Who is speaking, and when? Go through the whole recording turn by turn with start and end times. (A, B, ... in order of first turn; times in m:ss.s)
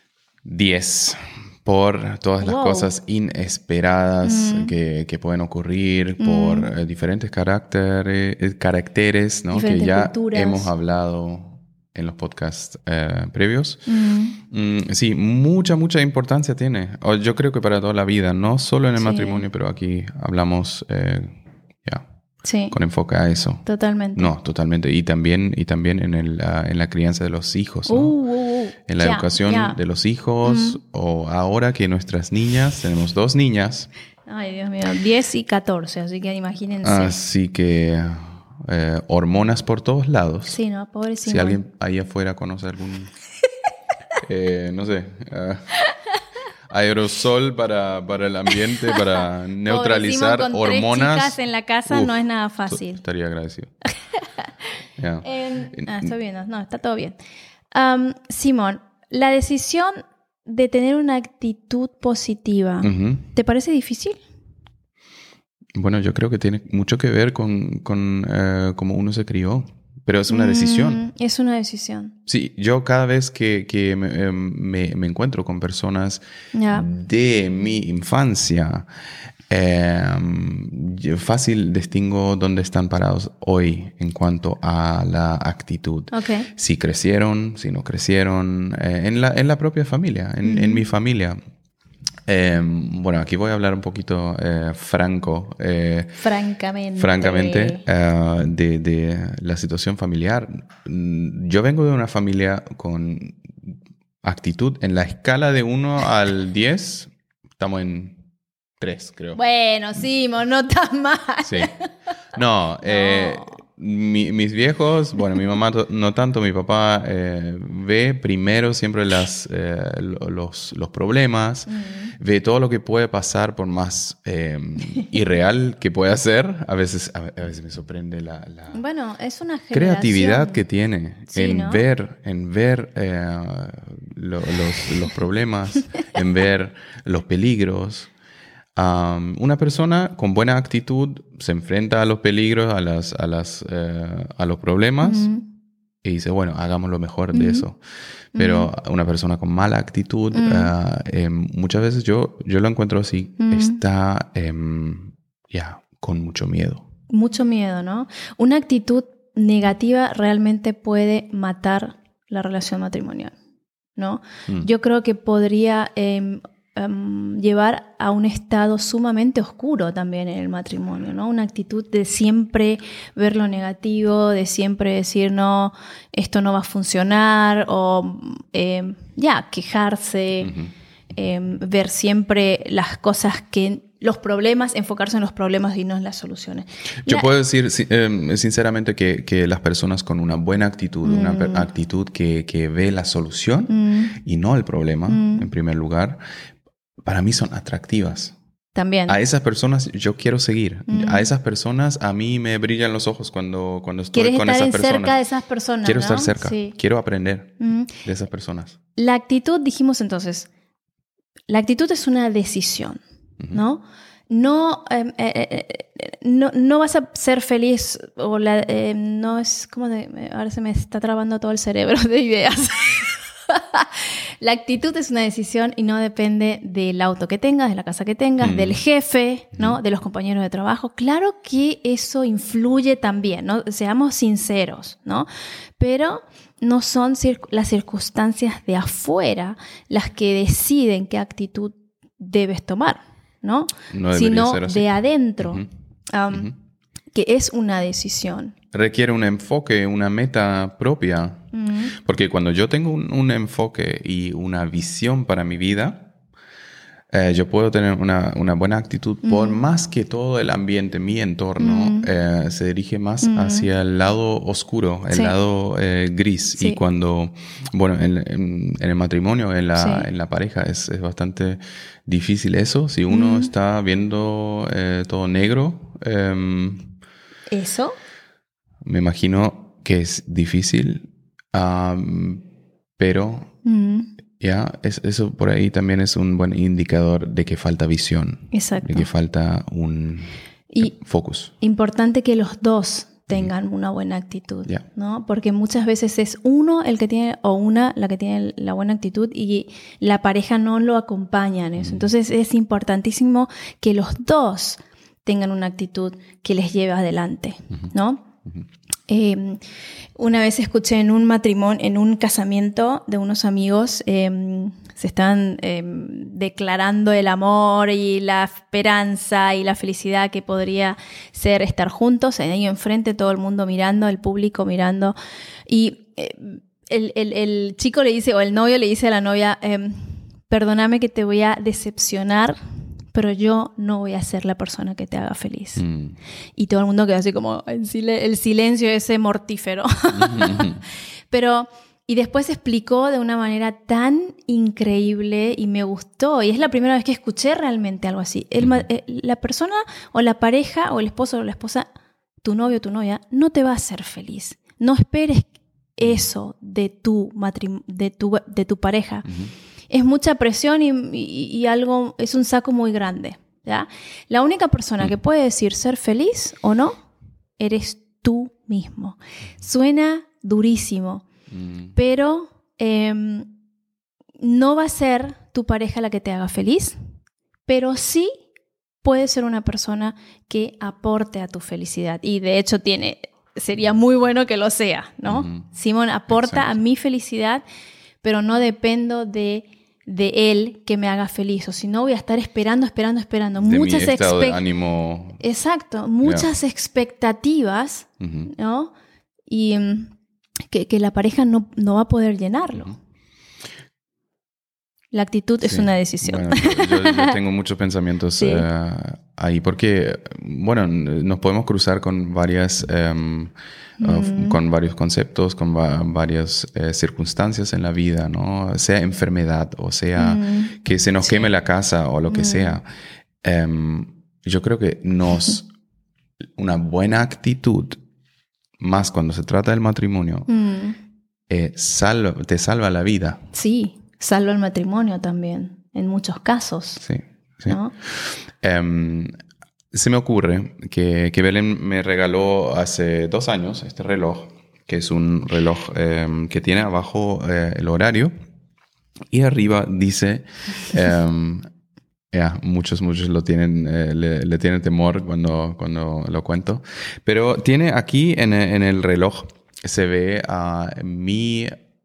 0:00.4-0:13.8 A
0:02.4-0:02.9 B
0:04.2-0:04.7 B
0:06.2-0:06.7 B
0:09.5-0:10.7 B
0:13.9-0:14.4 B
0:14.4-0:22.1 A
0:19.0-0:19.4 B
0:22.4-0:22.8 B
0:22.7-0:23.6 A
0:23.6-0:24.3 B
0:24.2-0:28.2 A
0:27.9-0:29.8 B
0:28.9-0:33.9 A
0:30.4-0:30.8 B
0:34.3-0:37.2 B
0:36.8-0:40.6 A
0:40.5-0:41.6 B
0:41.2-0:43.1 A
0:44.2-0:45.7 A
0:46.7-0:53.7 A
0:48.5-0:49.0 B
0:49.7-0:53.0 B
0:54.2-0:54.5 B
0:55.0-0:56.1 A
0:55.2-0:57.2 B
0:57.7-1:04.2 B
1:02.8-1:03.3 A
1:05.8-1:11.1 A
1:10.3-1:12.1 B
1:12.3-1:18.9 A
1:16.5-1:16.9 B
1:19.5-1:31.4 A
1:26.1-1:26.5 B
1:30.4-1:30.8 B
1:32.3-1:36.2 A
1:36.2-1:37.8 B
1:37.0-1:48.2 A
1:48.8-1:49.4 A
1:49.4-1:51.9 B
1:51.5-1:51.7 A
1:52.3-2:08.8 A
1:52.8-1:53.6 B
2:01.7-2:02.1 B
2:08.7-2:10.6 B
2:09.7-2:18.1 A
2:11.3-2:11.8 B
2:18.8-2:25.3 A
2:25.0-2:25.4 B
2:26.0-2:27.8 A
2:27.3-2:27.6 B
2:28.4-2:28.7 B
2:28.4-2:36.8 A
2:30.3-2:30.7 B
2:33.4-2:33.8 B
2:37.1-2:43.3 B
2:44.0-3:00.6 B
3:00.4-3:00.7 A
3:01.1-3:07.3 B
3:07.0-3:16.2 A
3:11.0-3:11.7 B
3:13.7-3:14.2 B
3:15.1-3:15.5 B
3:17.0-3:18.4 A
3:18.8-3:19.2 B
3:19.1-3:25.2 A
3:20.9-3:21.3 B
3:24.1-3:26.8 B
3:25.8-3:28.8 A
3:27.6-3:27.9 B
3:29.0-3:30.5 B
3:31.5-3:33.0 B
3:33.5-3:55.3 B
3:48.4-3:48.8 A
3:55.8-4:06.5 B
4:03.9-4:05.7 A
4:07.1-4:08.5 B
4:08.7-4:16.1 A
4:11.5-4:12.0 B
4:17.1-4:36.9 A
4:19.2-4:19.6 B
4:21.6-4:22.1 B
4:23.2-4:23.7 B
4:29.8-4:30.1 B
4:33.1-4:33.5 B
4:37.5-4:38.0 B
4:38.8-4:42.4 A
4:43.0-4:43.5 A
4:43.6-4:44.1 B
4:44.4-4:51.5 A
4:48.5-4:49.1 B
4:50.7-4:51.0 B
4:51.6-5:08.3 B
5:01.8-5:02.1 A
5:09.1-5:09.6 B
5:10.2-5:25.2 B
5:25.7-5:32.6 B
5:33.1-5:35.8 B
5:35.8-5:36.2 A
5:36.6-5:40.8 B
5:40.1-5:40.8 A
5:41.3-5:51.9 B
5:52.4-5:59.3 B
5:59.3-5:59.5 A
5:59.9-6:07.0 B
6:07.6-6:11.2 B
6:11.5-6:11.9 A
6:12.0-6:13.5 B
6:14.4-6:17.0 B
6:17.7-6:18.3 B
6:19.0-6:27.6 B
6:25.3-6:25.7 A
6:26.3-6:26.8 A
6:28.2-6:34.6 B
6:33.6-6:35.4 A
6:35.4-6:38.9 B
6:36.2-6:36.5 A
6:38.2-6:38.5 A
6:39.5-6:40.1 B
6:40.7-6:42.9 B
6:45.1-6:47.4 B
6:45.6-7:02.8 A
6:48.4-6:48.6 B
6:54.0-6:54.6 B
7:00.2-7:01.5 B
7:02.3-7:02.8 B
7:03.4-7:05.7 A
7:06.6-7:08.0 A
7:08.8-7:10.5 A
7:10.5-7:11.0 B
7:11.5-7:13.4 A
7:13.5-7:17.0 B
7:17.0-7:19.3 A
7:17.7-7:17.9 B
7:19.9-7:28.3 A
7:29.3-7:31.6 A
7:32.3-7:41.8 A